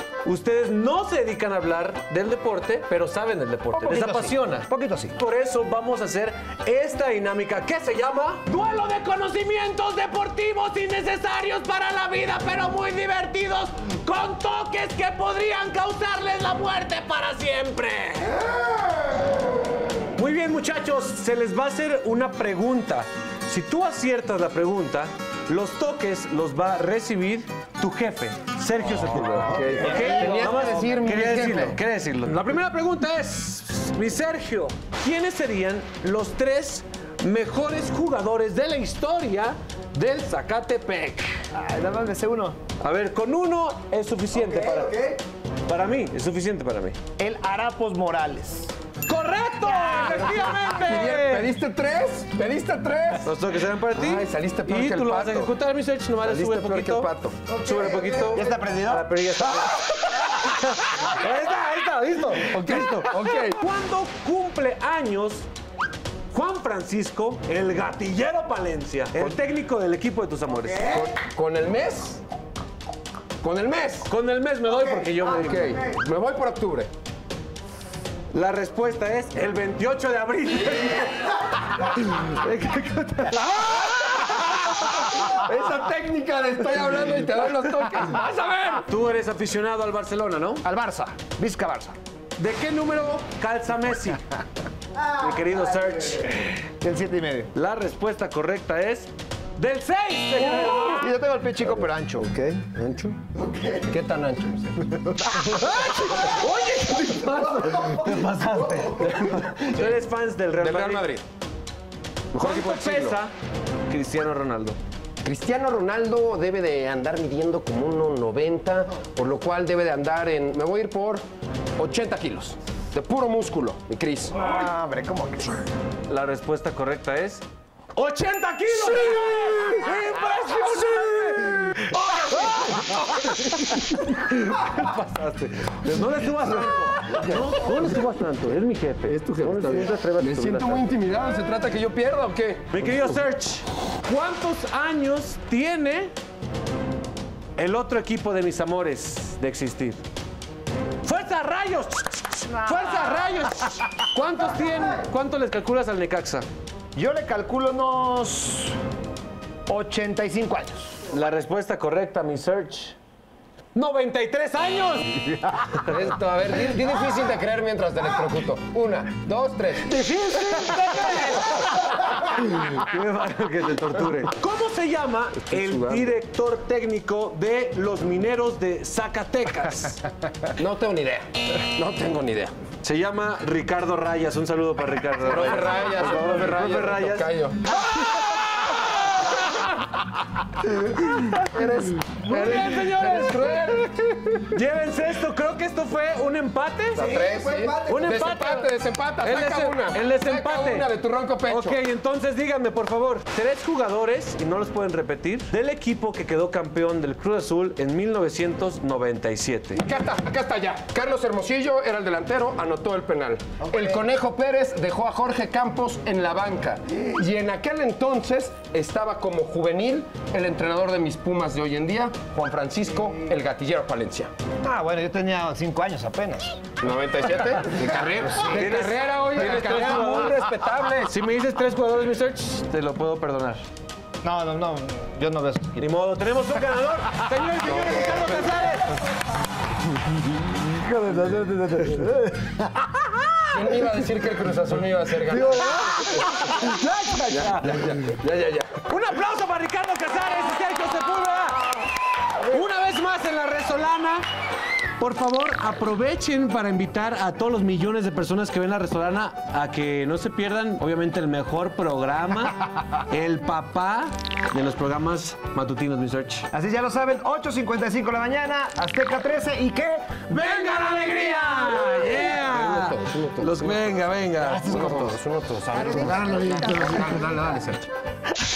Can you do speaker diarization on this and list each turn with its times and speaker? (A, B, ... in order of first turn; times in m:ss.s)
0:00.2-0:18.5 A
0:03.7-0:05.2 B
0:20.2-0:41.4 A
0:29.1-0:31.8 C
0:30.0-0:30.7 B
0:41.5-0:42.6 B
0:42.8-0:45.1 A
0:44.4-0:45.2 B
0:45.7-0:47.0 A
0:47.2-0:48.7 B
0:49.1-0:51.5 A
0:49.7-0:50.8 B
0:50.8-0:53.3 C
0:53.2-1:05.5 A
0:53.9-0:55.5 C
0:56.2-0:57.6 C
0:57.6-0:59.1 B
1:02.4-1:03.6 C
1:06.3-1:11.1 A
1:10.8-1:12.2 C
1:13.4-1:14.1 C
1:14.1-1:15.8 A
1:15.3-1:16.9 C
1:18.3-1:25.1 A
1:23.4-1:28.8 C
1:28.8-1:30.6 A
1:30.6-1:32.0 B
1:32.4-1:34.3 A
1:35.0-1:36.7 A
1:36.8-1:37.5 B
1:37.5-1:41.2 A
1:40.6-1:42.7 B
1:42.7-1:43.2 C
1:43.7-1:46.4 C
1:45.4-1:51.1 A
1:49.6-1:50.0 C
1:50.6-1:51.2 C
1:52.3-1:53.2 C
1:52.4-1:53.3 A
1:53.9-1:54.8 A
1:55.2-2:01.2 C
2:01.8-2:04.4 C
2:04.3-2:05.7 B
2:06.1-2:07.4 A
2:08.0-2:20.9 A
2:09.0-2:09.7 C
2:12.4-2:13.7 C
2:19.1-2:23.2 C
2:22.7-2:26.1 A
2:27.6-2:30.0 A
2:31.0-2:36.5 A
2:32.5-2:33.4 B
2:37.0-2:38.8 B
2:39.7-2:41.1 B
2:41.1-2:43.0 A
2:43.8-2:45.9 A
2:45.8-2:49.9 C
2:49.8-3:00.1 A
2:55.5-2:56.1 C
3:00.5-3:02.5 C
3:02.8-3:10.1 A
3:05.2-3:07.8 C
3:10.9-3:11.4 A
3:11.1-3:14.6 C
3:12.1-3:13.8 A
3:14.5-3:17.2 A
3:16.9-3:21.8 C
3:17.0-3:18.0 B
3:17.9-3:18.7 A
3:19.2-3:20.9 A
3:21.5-3:29.8 A
3:29.8-3:44.3 C
3:44.6-3:46.8 B
3:46.8-3:51.1 C
3:48.3-3:48.8 B
3:48.4-3:50.4 A
3:51.0-3:53.6 A
3:54.2-3:55.9 B
3:55.8-3:59.0 A
3:57.5-3:58.2 C
4:00.5-4:02.9 B
4:03.5-4:08.8 C
4:05.5-4:06.0 B
4:05.6-4:07.9 A
4:08.8-4:14.2 A
4:15.0-4:26.5 A
4:26.5-4:30.7 B
4:30.3-4:35.0 A
4:32.3-4:33.8 C
4:34.5-4:35.1 B
4:34.5-4:37.9 C
4:35.8-4:37.1 B